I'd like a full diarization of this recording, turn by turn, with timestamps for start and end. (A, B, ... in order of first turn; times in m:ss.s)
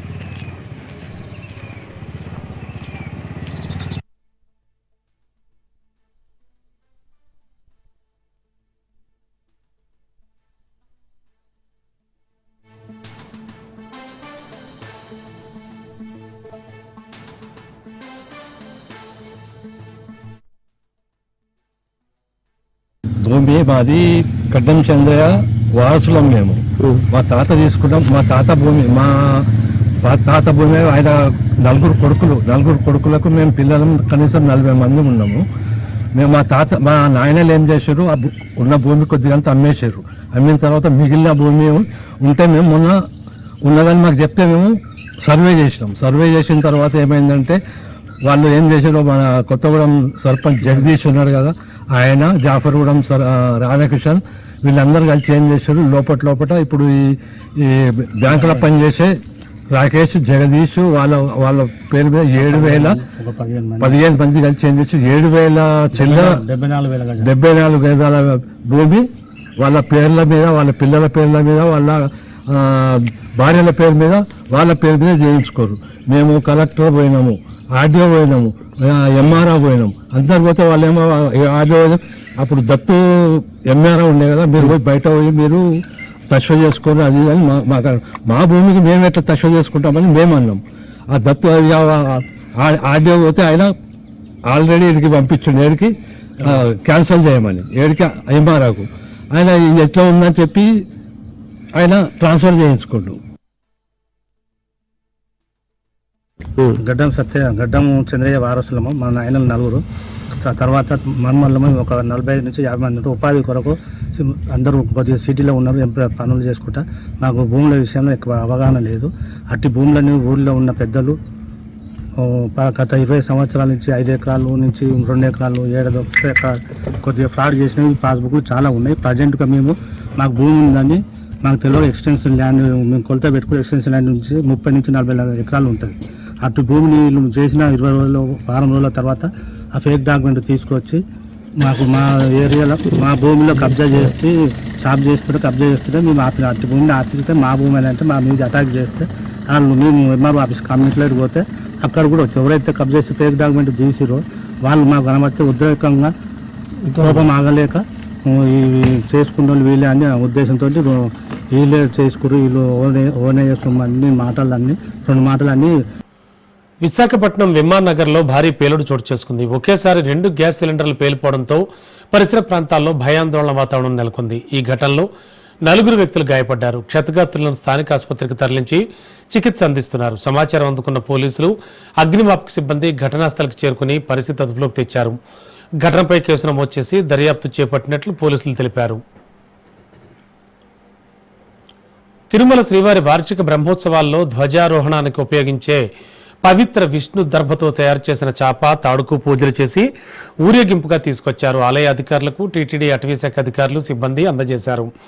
0:23.2-0:29.1 A
0:30.0-0:35.4 A
0:36.2-0:42.9 A
0:43.6-0:44.7 A
0:45.2-0:47.6 A
0:48.2-0:59.2 A
0:58.3-0:58.6 B
0:59.7-1:03.0 A
1:02.4-1:04.0 B
1:03.8-1:06.4 A
1:05.9-1:07.3 B
1:07.2-1:09.0 A
1:09.6-1:25.6 A
1:26.3-1:33.7 A
1:34.5-1:40.7 A
1:41.8-1:43.2 A
1:46.8-1:49.8 B
1:50.4-2:01.1 B
2:02.2-2:21.0 B
2:21.6-2:36.1 B
2:37.0-2:45.7 B
2:46.8-2:55.1 C
2:55.6-3:05.2 C
3:05.8-3:09.0 C
3:12.3-3:15.8 C
3:16.4-3:19.9 C
3:20.4-3:24.9 C